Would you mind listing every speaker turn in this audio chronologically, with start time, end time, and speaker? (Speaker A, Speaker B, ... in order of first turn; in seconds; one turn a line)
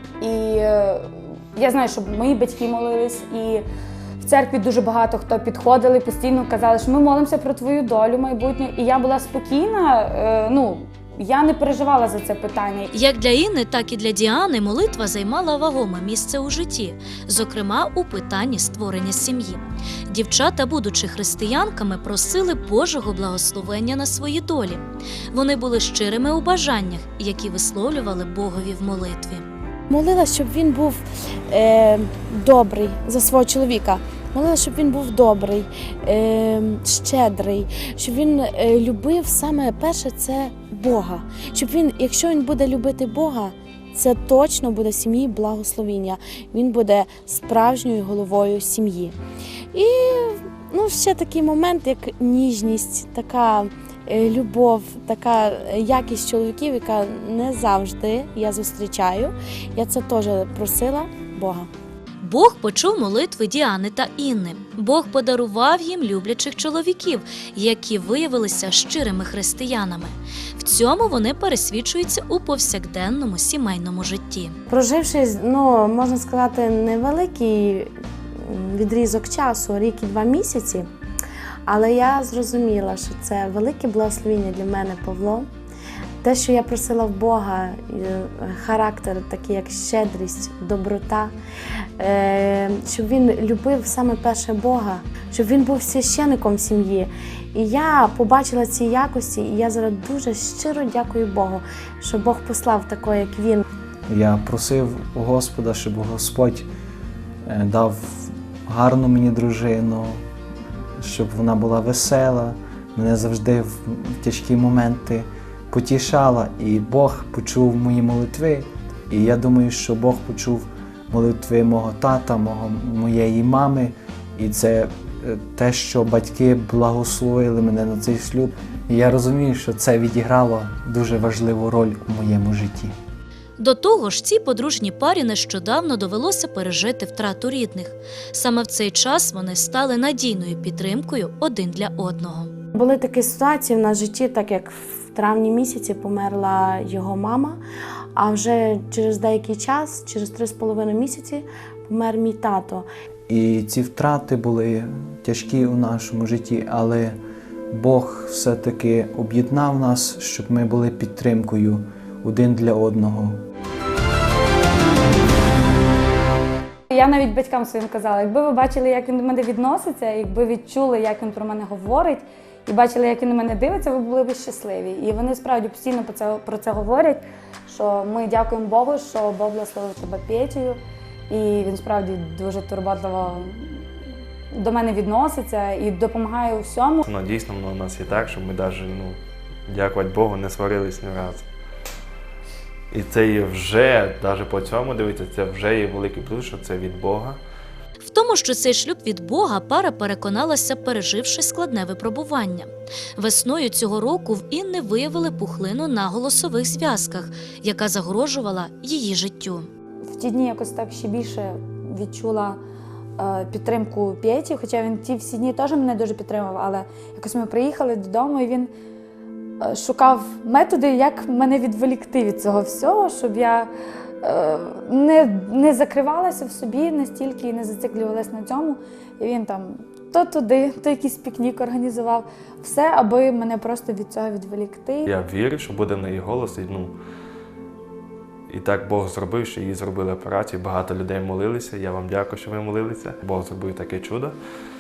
Speaker A: 0.2-3.6
Speaker A: 4.2-12.9
Speaker B: 12.9-29.4
Speaker C: 29.9-49.1
Speaker C: 49.7-61.7
Speaker B: 62.2-74.6
Speaker C: 74.7-80.9
Speaker C: 81.7-85.5
Speaker C: 86.2-91.3
Speaker C: 92.0-103.6
Speaker D: 104.1-106.7
Speaker D: 107.5-110.2
Speaker D: 111.0-132.9
Speaker B: 133.6-142.5
Speaker C: 142.7-147.6
Speaker C: 148.2-152.9
Speaker D: 153.3-157.2
Speaker D: 157.7-163.4
Speaker A: 166.9-180.8
Speaker A: 181.3-183.8
Speaker A: 184.5-187.0
Speaker E: 187.0-191.4
Speaker E: 192.9-197.4
Speaker B: 198.0-209.7
Speaker A: 210.1-212.6
Speaker A: 213.2-218.7
Speaker A: 219.6-223.7
Speaker A: 224.2-235.1
Speaker E: 235.1-236.9
Speaker E: 238.5-244.3